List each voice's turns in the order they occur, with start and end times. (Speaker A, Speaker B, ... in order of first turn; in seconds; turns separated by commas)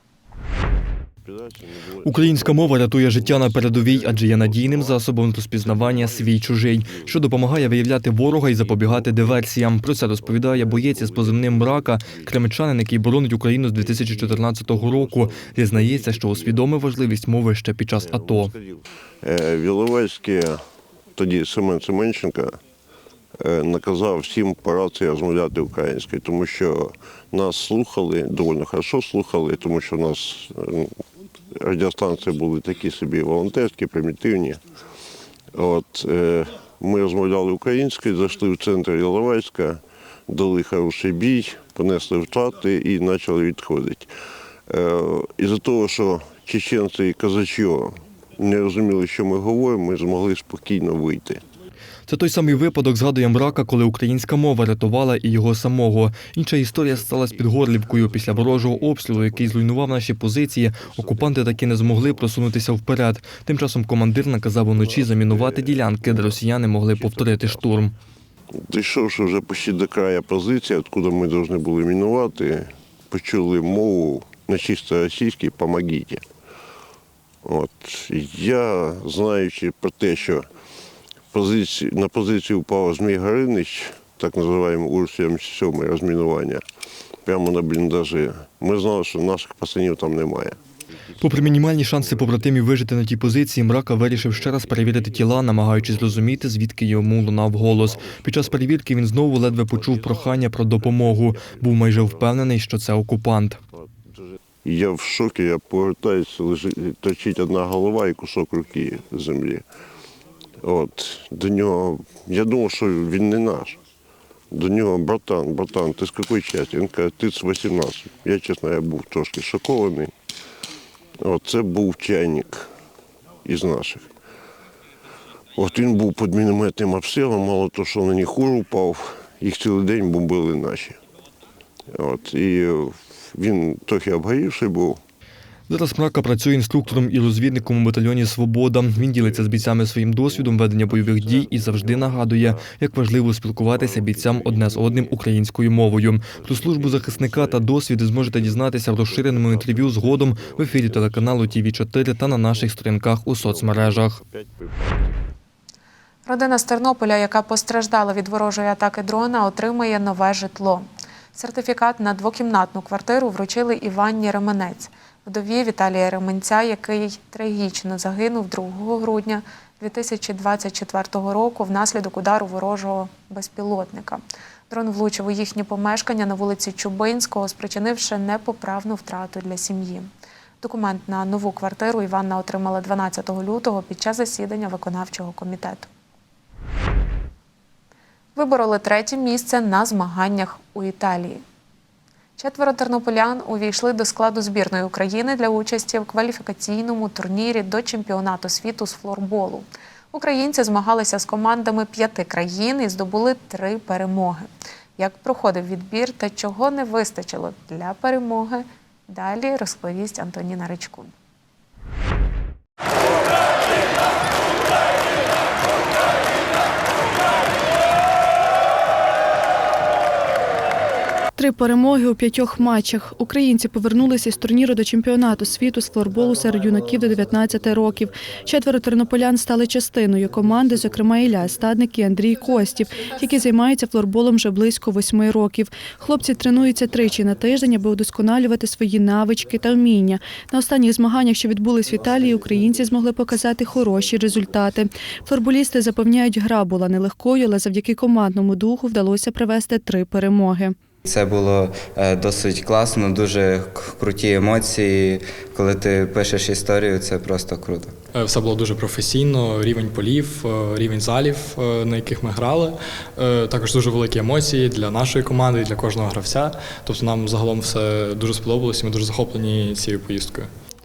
Speaker A: 1.2-5.0, Speaker B: 2.0-18.5, Speaker A: 5.5-9.5, Speaker A: 10.2-12.4, Speaker A: 13.8-16.7, Speaker A: 18.0-20.6, Speaker A: 21.2-22.6, Speaker A: 23.4-30.9, Speaker A: 31.6-34.6, Speaker A: 35.5-44.1, Speaker A: 44.7-51.4, Speaker B: 52.1-68.0, Speaker A: 56.8-60.0, Speaker A: 60.8-62.2, Speaker A: 64.8-67.7, Speaker A: 68.7-76.2, Speaker A: 77.5-80.5, Speaker A: 81.3-86.6, Speaker A: 87.2-90.6, Speaker A: 91.2-92.5, Speaker B: 91.2-103.6, Speaker A: 94.3-96.4, Speaker A: 97.8-98.6, Speaker A: 99.7-100.2, Speaker A: 100.8-102.3, Speaker A: 104.6-109.6, Speaker A: 110.6-113.8, Speaker A: 114.5-120.1, Speaker A: 121.2-122.7, Speaker A: 123.5-124.0, Speaker A: 125.6-131.0, Speaker A: 131.9-135.0, Speaker B: 135.7-154.2, Speaker A: 139.0-139.6, Speaker A: 140.2-142.7, Speaker A: 143.7-145.2, Speaker A: 146.3-151.7, Speaker A: 152.4-152.8, Speaker A: 153.4-155.2, Speaker C: 156.2-180.1, Speaker C: 180.6-185.9, Speaker C: 188.3-191.4, Speaker C: 192.4-211.1, Speaker D: 221.4-250.7, Speaker E: 251.0-258.0, Speaker F: 258.1-270.5